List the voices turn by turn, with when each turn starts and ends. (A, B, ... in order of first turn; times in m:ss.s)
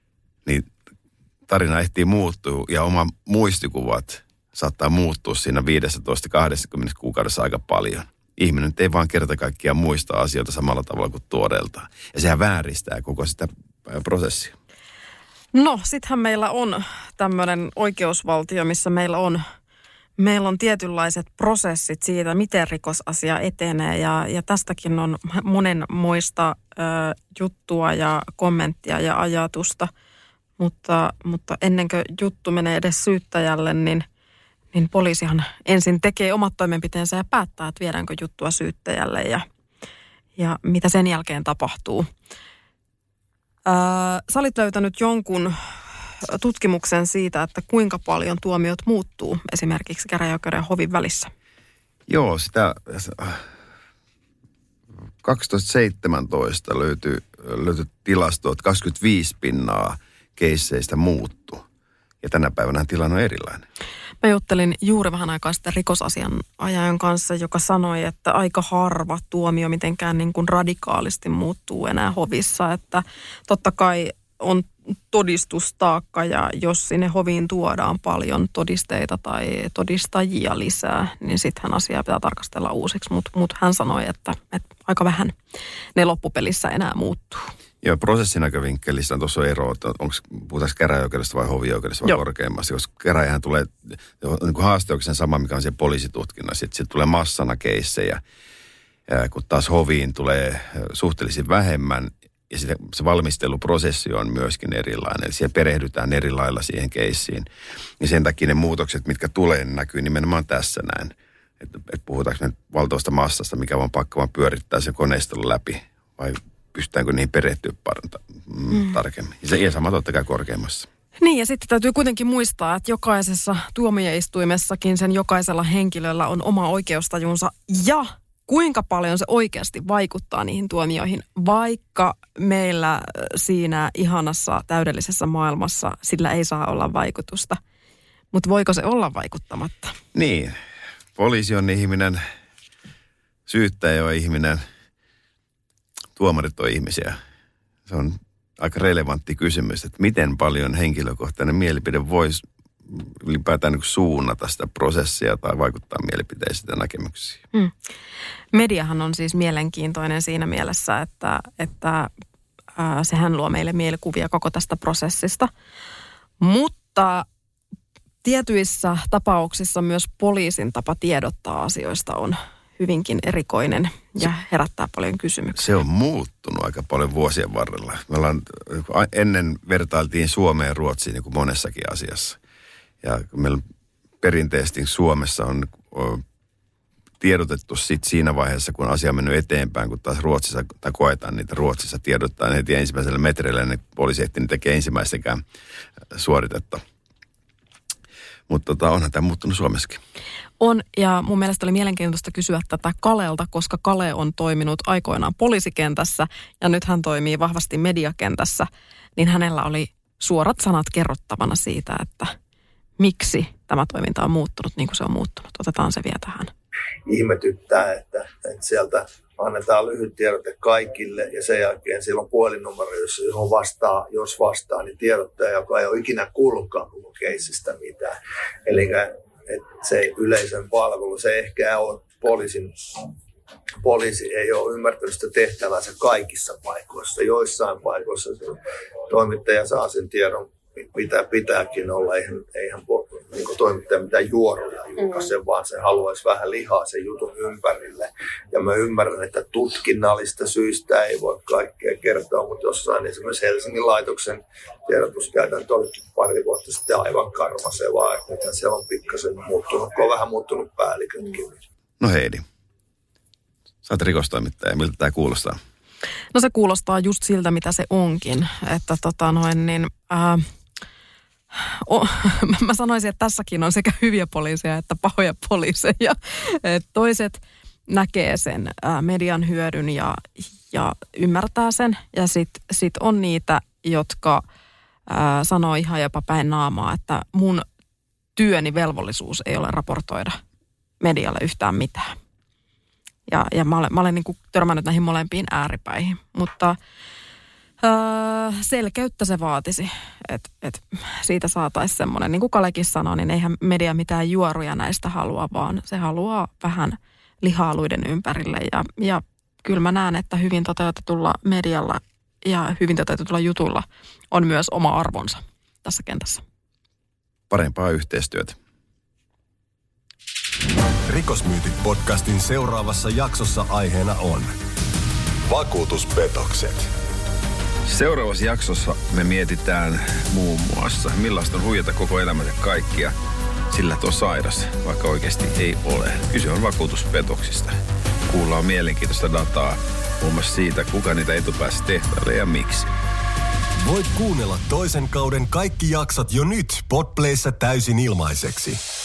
0:01.5-0:14.5 A
0:15.5-0:19.4 B
0:20.2-0:29.9 B
0:30.6-0:34.0 B
0:34.7-0:39.4 B
0:40.4-0:42.1 B
0:43.7-0:45.5 B
0:46.2-0:51.3 B
0:52.1-0:53.4 A
0:55.2-1:01.6 A
1:02.2-1:03.6 A
1:04.2-1:25.4 B
1:26.0-1:27.5 B
1:27.8-1:38.2 A
1:39.1-1:47.5 A
1:48.0-2:00.9 A
2:01.2-2:17.6 B
2:18.3-2:20.0 B
2:20.1-2:20.6 A
2:21.2-2:22.2 A
2:23.5-2:24.6 A
2:26.2-2:27.2 A
2:27.9-2:37.4 A
2:38.5-2:42.1 B
2:42.8-2:45.5 B
2:46.4-2:47.2 B
2:48.2-2:55.7 B
2:55.6-3:02.4 A
3:03.0-3:03.6 A
3:04.2-3:06.2 A
3:07.2-3:15.4 A
3:16.1-3:16.8 A
3:18.5-3:20.0 A
3:20.6-3:32.3 B
3:33.0-3:36.5 B
3:37.1-3:52.8 C
3:53.8-3:58.6 C
3:59.1-4:21.6 C
4:22.0-4:22.4 A
4:23.8-4:25.6 A
4:26.3-4:30.4 B
4:31.5-4:44.4 B
4:45.1-4:47.6 B
4:48.4-4:50.4 B
4:51.0-4:52.1 B
4:53.3-4:56.8 B
4:57.8-5:16.4 B
5:17.5-5:18.6 A
5:21.1-5:24.5 D
5:25.5-5:26.9 D
5:27.9-5:33.1 A
5:33.7-5:37.8 A
5:38.3-5:42.9 A
5:43.8-5:48.8 D